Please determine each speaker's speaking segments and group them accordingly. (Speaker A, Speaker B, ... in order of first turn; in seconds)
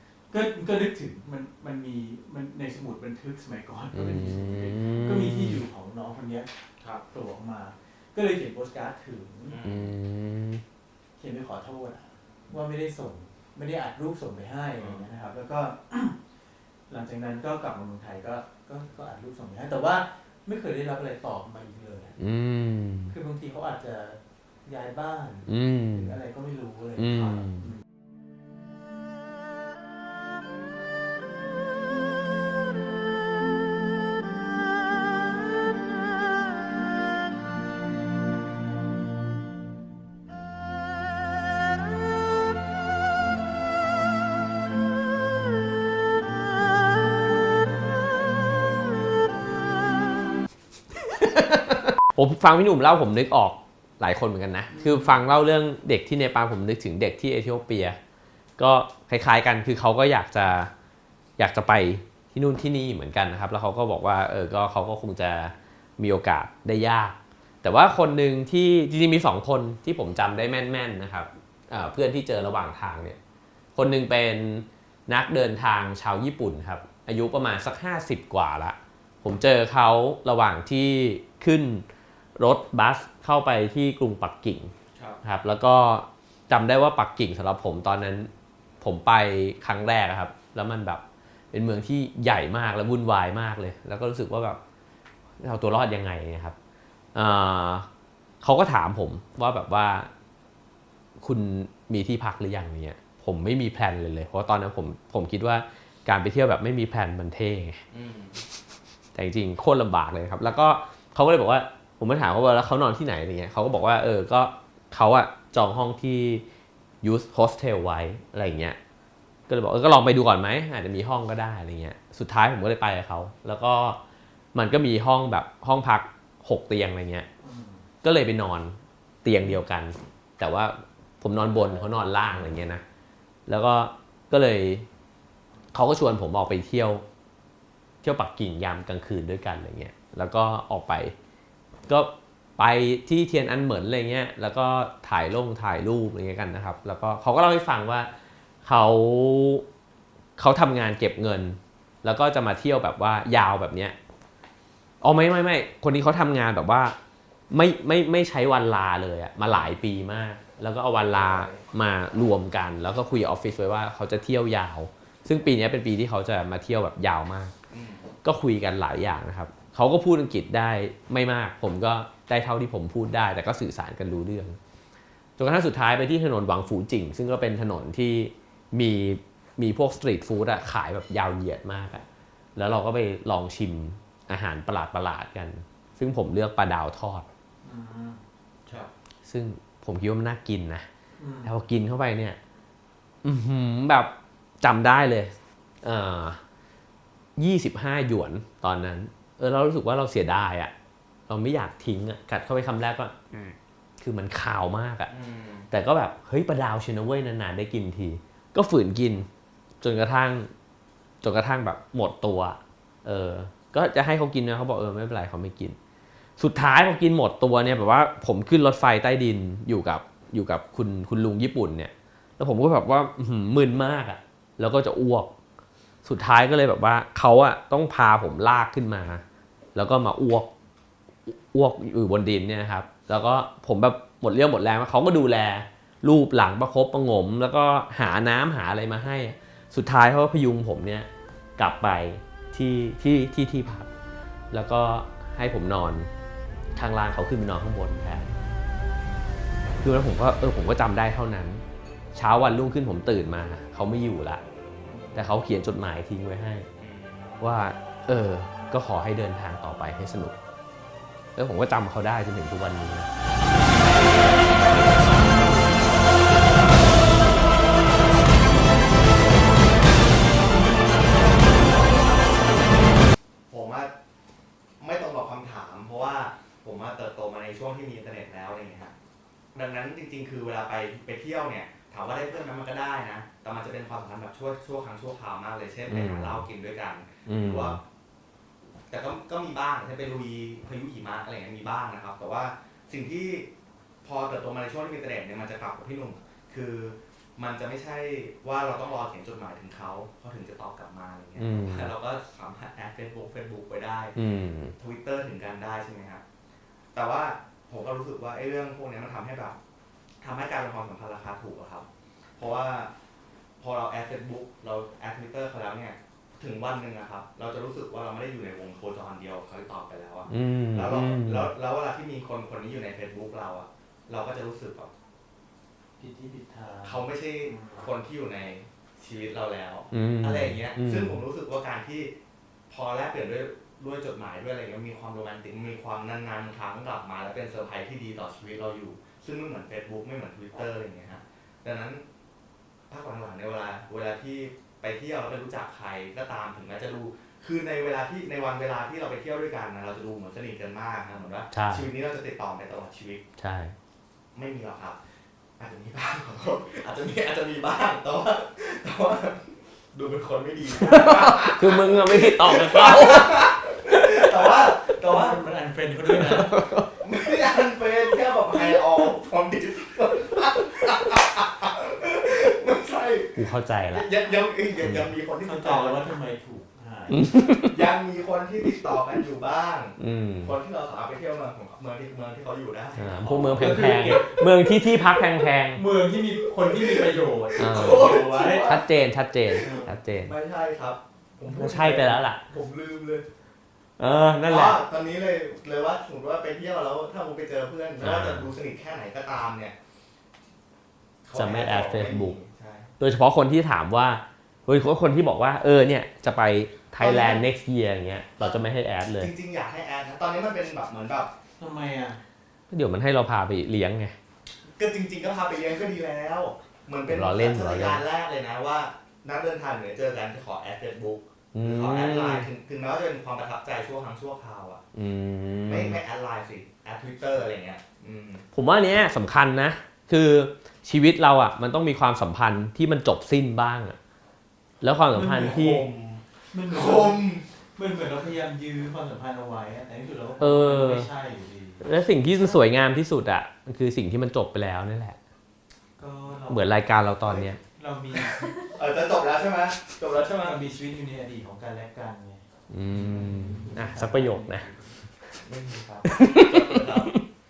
Speaker A: 0.3-6.5, 7.1-9.6, 11.2-16.2, 16.9-22.2, 23.1-27.4, 127.4-127.9, 131.4-131.9, 187.6-188.2, 191.2-191.5, 326.0-327.9, 365.0-366.6, 375.4-377.2, 383.1-385.2, 385.7-388.8, 389.5-389.9, 411.6-412.2, 435.1-435.7, 436.5-442.7, 446.0-446.8, 447.7-448.5, 450.4-452.4, 453.4-454.8
Speaker B: 3.9-5.6, 9.6-10.6, 22.2-23.1, 25.5-26.1, 27.0-27.7, 51.1-58.0, 58.6-60.7, 61.4-73.2, 73.8-81.8, 82.4-84.7, 85.2-88.3, 88.8-91.0, 91.5-94.6, 95.4-96.5, 97.1-97.9, 98.4-100.1, 101.2-107.8, 109.1-116.4, 117.0-118.8, 119.5-124.0, 124.5-127.2, 128.0-132.8, 133.5-134.9, 135.7-137.0, 138.0-141.1, 141.9-148.1, 148.6-149.6, 150.4-153.9, 155.0-156.9, 157.5-167.5, 168.2-174.6, 175.4-182.0, 182.6-187.2, 189.2-190.9, 191.4-192.4, 193.2-196.4, 197.4-200.7, 201.3-203.1, 204.0-205.1, 205.7-209.3, 209.8-210.5, 211.2-215.8, 216.4-225.3, 226.0-229.2, 229.7-230.5, 231.2-243.9, 244.5-246.1, 246.7-248.3, 249.8-251.6, 252.1-254.4, 255.1-256.7, 257.4-260.3, 261.4-263.1, 285.9-286.4, 287.2-287.8, 301.4-301.9, 304.1-304.7, 320.3-321.5, 329.9-331.2, 351.5-351.9, 353.4-353.7, 360.8-363.5, 366.2-366.9, 373.3-374.1, 374.8-375.1, 377.1-377.8, 380.0-380.5, 382.9-385.8, 387.6-390.3, 391.5-392.4, 394.0-394.8, 398.0-398.5, 401.3-402.4, 403.0-409.3, 412.7-414.1, 417.1-418.0, 421.5-422.5, 424.9-426.0, 428.5-434.0, 434.8-435.8, 440.4-441.1, 441.8-445.2, 446.5-447.6, 452.7-454.7, 456.0-457.2
Speaker C: 9.5-9.9, 14.8-15.1, 84.9-85.2, 107.9-108.4, 159.5-159.7, 160.9-161.6, 167.7-168.1, 205.1-205.7, 254.9-255.2, 256.8-257.3, 273.5-273.9, 274.8-278.9, 279.5-287.8, 288.9-293.5, 294.0-304.1, 304.8-306.2, 306.9-309.6, 310.2-311.9, 312.4-312.9, 313.6-324.9, 326.8-332.1, 332.7-342.0, 342.9-353.2, 354.3-355.0, 355.6-365.4, 367.0-376.1, 377.6-383.4, 386.2-388.9, 389.5-393.3, 394.4-399.7, 401.2-402.9, 407.0-407.4, 408.4-408.6, 409.2-411.3, 414.8-424.8, 425.6-428.4, 435.3-437.4, 447.2-447.5, 448.6-450.6, 452.9-453.6, 455.4-457.1